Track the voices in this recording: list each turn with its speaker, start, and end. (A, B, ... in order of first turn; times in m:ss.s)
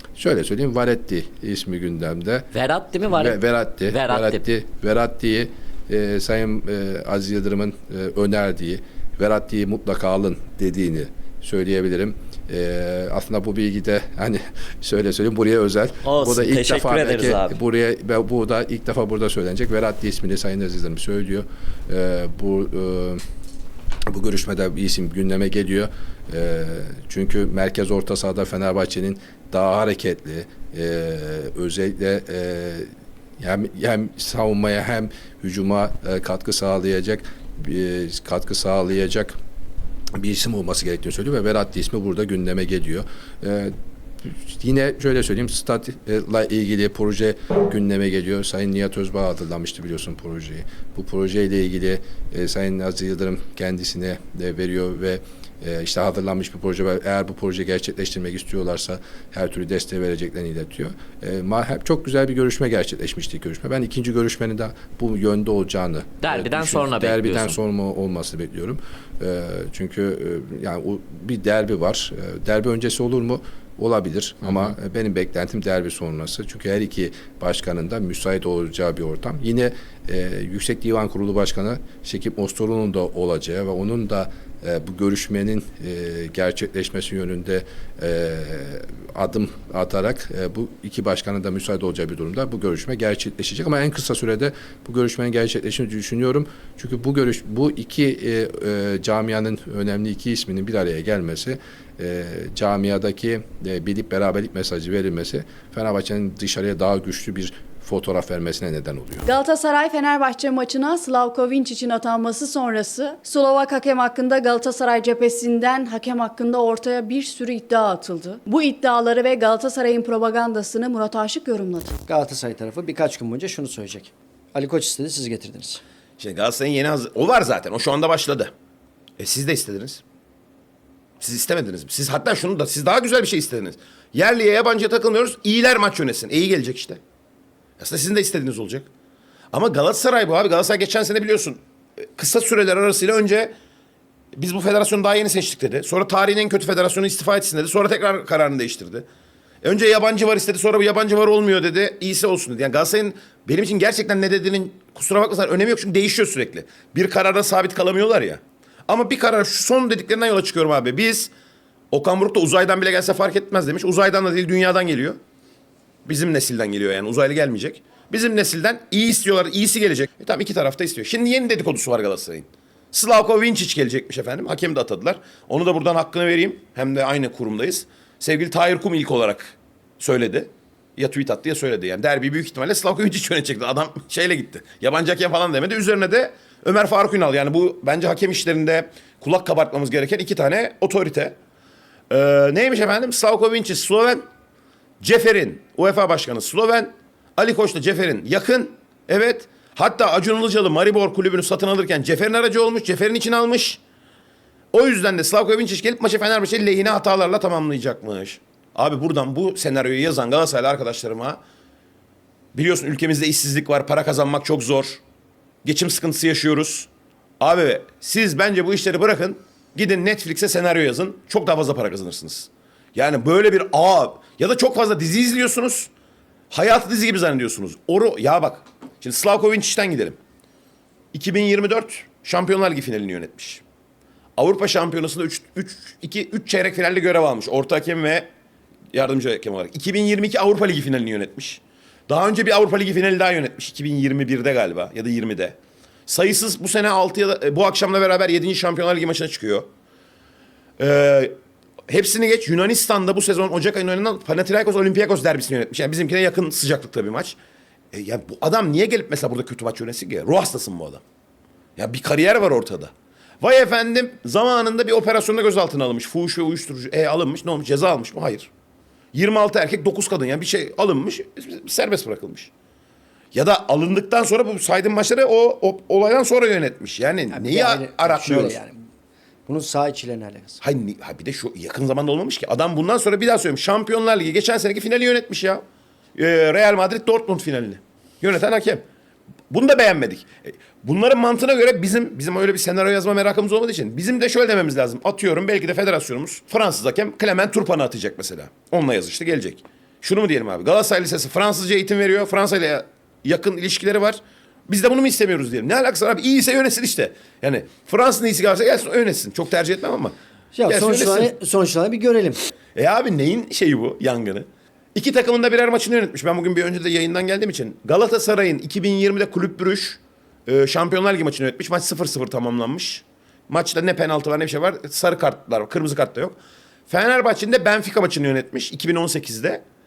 0:00.2-0:02.5 A
0:02.5-0:04.4 B
0:03.1-0:23.2 A
0:16.1-0:17.5 B
0:24.1-0:32.8 A
0:33.4-0:39.3 A
0:40.2-0:43.7 A
0:44.2-1:49.2 A
1:06.2-1:07.6 B
1:49.2-2:01.9 C
2:02.1-2:05.8 D
2:06.2-2:08.5 E
2:09.2-2:10.0 E
2:11.2-2:17.0 E
2:17.8-2:18.9 E
2:19.5-2:21.6 E
2:22.2-2:23.5 E
2:24.4-2:29.0 E
2:29.6-2:41.3 E
2:41.9-2:45.2 E
2:46.0-3:11.3 E
3:12.1-3:14.2 E
3:15.0-3:23.8 E
3:24.7-3:31.4 E
3:32.5-3:35.0 E
3:35.6-3:36.9 E
3:37.4-3:45.9 E
3:46.5-3:50.2 E
3:51.1-3:53.6 E
3:54.4-3:58.2 E
3:58.9-4:09.7 E
4:10.8-4:11.3 E
4:11.9-4:17.4 E
4:17.9-4:21.0 E
4:21.8-4:28.5 E
4:29.1-4:32.5 E
4:33.3-4:38.6 E
4:37.3-4:38.7 D
4:39.5-4:40.6 D
4:40.6-4:45.6 E
4:46.2-4:48.8 E
4:49.5-5:10.1 E
5:10.5-5:12.4 D
5:10.6-5:11.3 E
5:12.8-5:26.4 E
5:26.9-5:29.6 E